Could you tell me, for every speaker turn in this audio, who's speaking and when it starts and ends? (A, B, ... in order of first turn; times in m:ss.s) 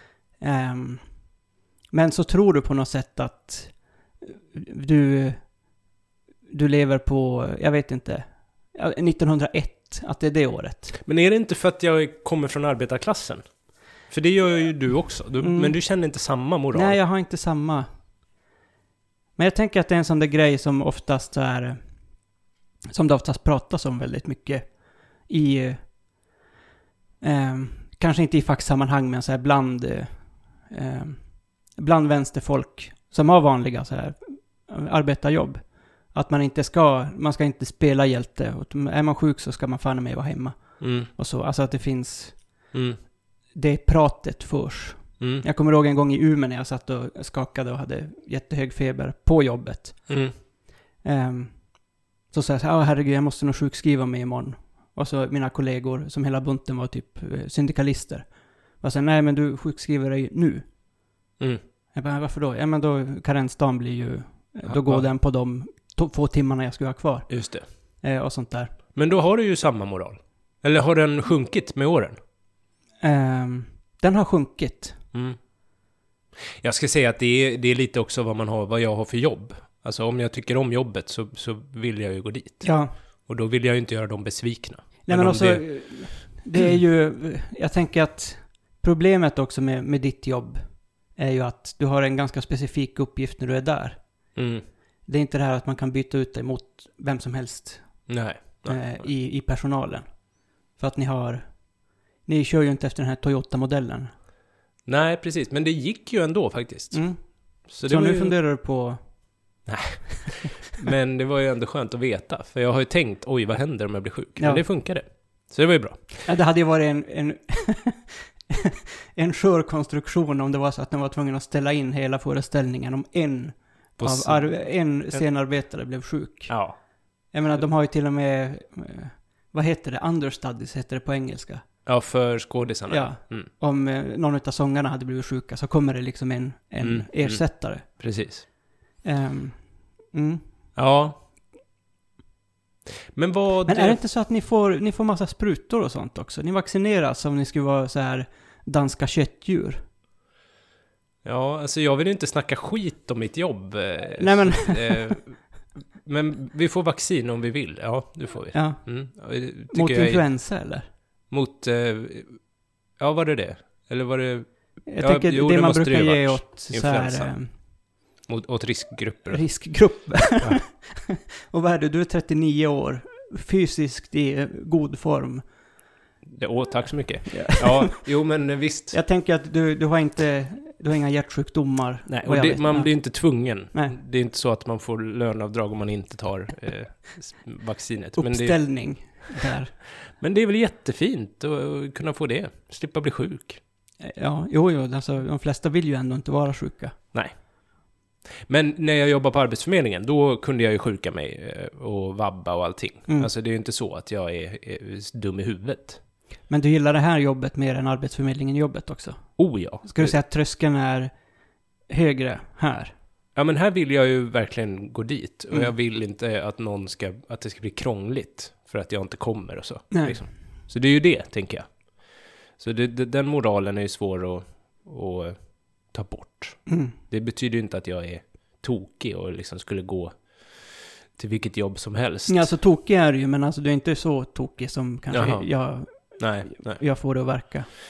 0:00.4-0:01.0 A
0:01.9-0:05.5 A
0:06.5-0:11.0 A
0:11.0-0:13.4 B
0:14.0-0:17.0 B
0:15.4-0:15.8 A
0:16.7-0:17.9 A
0:19.4-0:21.8 A
0:22.9-0:25.9 A
0:27.2-0:42.6 A
0:40.8-0:41.1 B
0:42.7-0:43.0 B
0:43.5-0:50.2 A
0:45.2-0:45.4 B
0:50.1-0:50.3 B
0:51.0-0:58.3 A
0:58.8-1:00.7 A
1:01.9-1:07.3 A
1:04.7-1:05.1 B
1:07.3-1:07.6 B
1:08.0-1:08.7 A
1:09.0-1:12.2 B
1:13.0-1:15.0 A
1:16.5-1:22.8 B
1:22.6-1:22.9 A
1:23.2-1:26.0 B
1:25.1-1:30.6 A
1:31.1-1:34.0 A
1:34.4-1:34.6 B
1:35.1-1:40.1 A
1:38.1-1:38.8 B
1:40.8-1:41.6 A
1:42.2-1:44.1 A
1:44.9-1:47.1 B
1:46.9-1:49.0 A
1:47.7-1:48.4 B
1:49.7-1:56.1 B
1:54.4-1:54.6 A
1:56.2-2:06.7 A
2:04.0-2:05.2 B
2:06.5-2:06.8 B
2:07.3-2:11.6 A
2:11.9-2:13.5 B
2:12.9-2:18.0 A
2:16.8-2:18.4 B
2:19.0-2:20.4 A
2:20.8-2:21.2 B
2:23.1-2:24.0 B
2:23.7-2:29.8 A
2:31.2-2:35.4 B
2:34.2-2:35.2 A
2:36.0-2:40.2 B
2:38.5-2:38.9 A
2:39.7-2:40.8 A
2:41.3-2:42.4 B
2:43.0-2:47.4 B
2:44.9-2:47.5 A
2:48.2-2:49.5 B
2:49.3-2:55.4 A
2:56.3-2:59.0 B
2:57.3-2:58.0 A
2:58.9-3:03.2 A
3:02.1-3:08.6 B
3:03.7-3:04.0 A
3:08.2-3:09.7 A
3:10.0-3:13.6 B
3:14.0-3:16.9 A
3:18.5-3:26.0 B
3:26.5-3:31.1 A
3:29.4-3:30.1 B
3:31.9-3:32.9 A
3:33.4-3:52.5 B
3:39.9-3:40.2 A
3:46.7-3:47.0 A
3:52.3-3:57.7 A
3:55.1-3:56.8 B